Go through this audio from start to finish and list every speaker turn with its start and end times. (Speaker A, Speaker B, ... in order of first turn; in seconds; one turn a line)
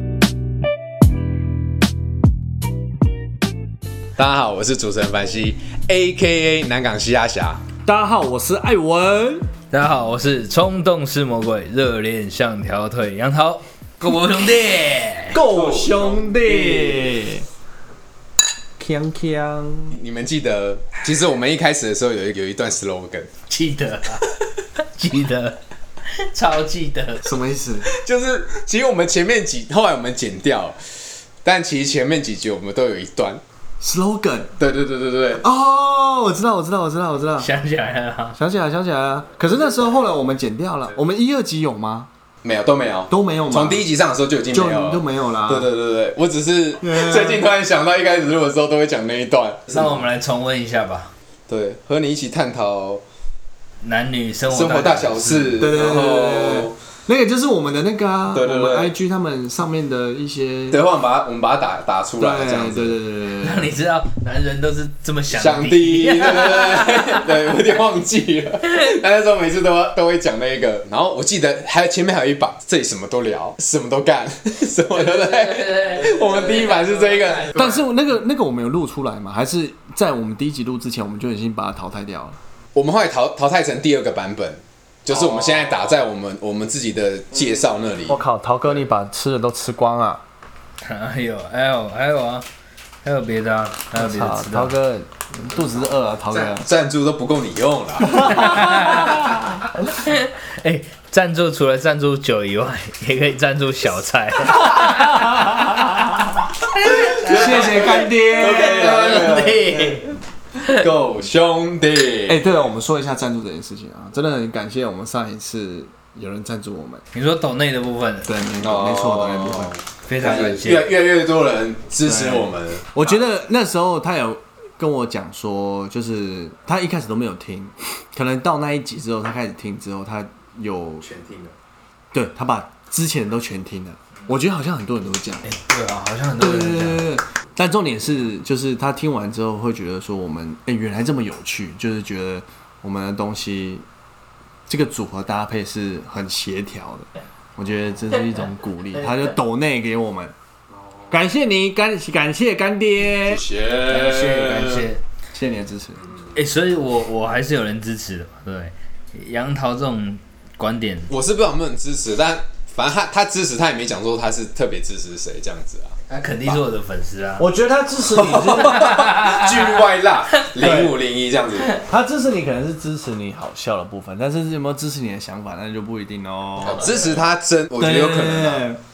Speaker A: 4.2-7.6
Speaker B: 7.8-9.5
Speaker C: 9.7-15.4
Speaker B: 15.3-17.4
Speaker A: 15.5-17.1
Speaker B: 18.8-20.0
Speaker A: 19.9-23.3
Speaker C: 23.5-24.2
Speaker C: 24.8-25.6
Speaker C: 26.1-27.2
Speaker B: 27.2-27.9
Speaker A: 27.9-30.8
Speaker A: 31.4-33.4
Speaker B: 33.8-34.5
Speaker A: 34.6-35.4
Speaker B: 35.4-37.5
Speaker C: 37.4-38.4
Speaker B: 38.4-42.1
Speaker A: 42.4-49.9
Speaker B: 43.1-43.8
Speaker B: 44.5-45.7
Speaker B: 46.8-47.4
Speaker C: 49.7-51.1
Speaker A: 51.5-53.0
Speaker C: 53.8-55.6
Speaker A: 54.5-56.7
Speaker B: 55.6-60.8
Speaker A: 58.3-58.9
Speaker A: 60.7-63.0
Speaker B: 62.2-63.7
Speaker C: 63.4-67.3
Speaker A: 65.3-77.8
Speaker B: 77.5-82.4
Speaker A: 82.7-88.2
Speaker B: 88.1-90.2
Speaker C: 90.8-92.5
Speaker C: 93.0-94.8
Speaker B: 93.9-96.7
Speaker A: 96.3-98.9
Speaker C: 98.2-106.2
Speaker C: 106.8-110.8
Speaker B: 107.1-109.3
Speaker A: 107.2-110.0
Speaker A: 110.6-112.4
Speaker B: 112.3-117.0
Speaker C: 117.1-118.3
Speaker B: 118.2-119.8
Speaker A: 118.6-123.2
Speaker C: 120.1-120.9
Speaker B: 122.0-131.1
Speaker A: 131.0-131.5
Speaker B: 132.1-135.4
Speaker C: 135.4-137.2
Speaker B: 136.4-143.8
Speaker B: 144.7-150.3
Speaker B: 151.1-153.4
Speaker A: 153.2-154.9
Speaker C: 153.8-155.0
Speaker B: 155.3-156.0
Speaker C: 156.3-161.1
Speaker A: 161.1-165.9
Speaker C: 166.1-167.5
Speaker B: 167.4-168.9
Speaker A: 168.1-171.8
Speaker C: 168.6-169.8
Speaker B: 170.6-170.9
Speaker B: 171.8-177.0
Speaker A: 176.6-178.7
Speaker B: 177.8-178.8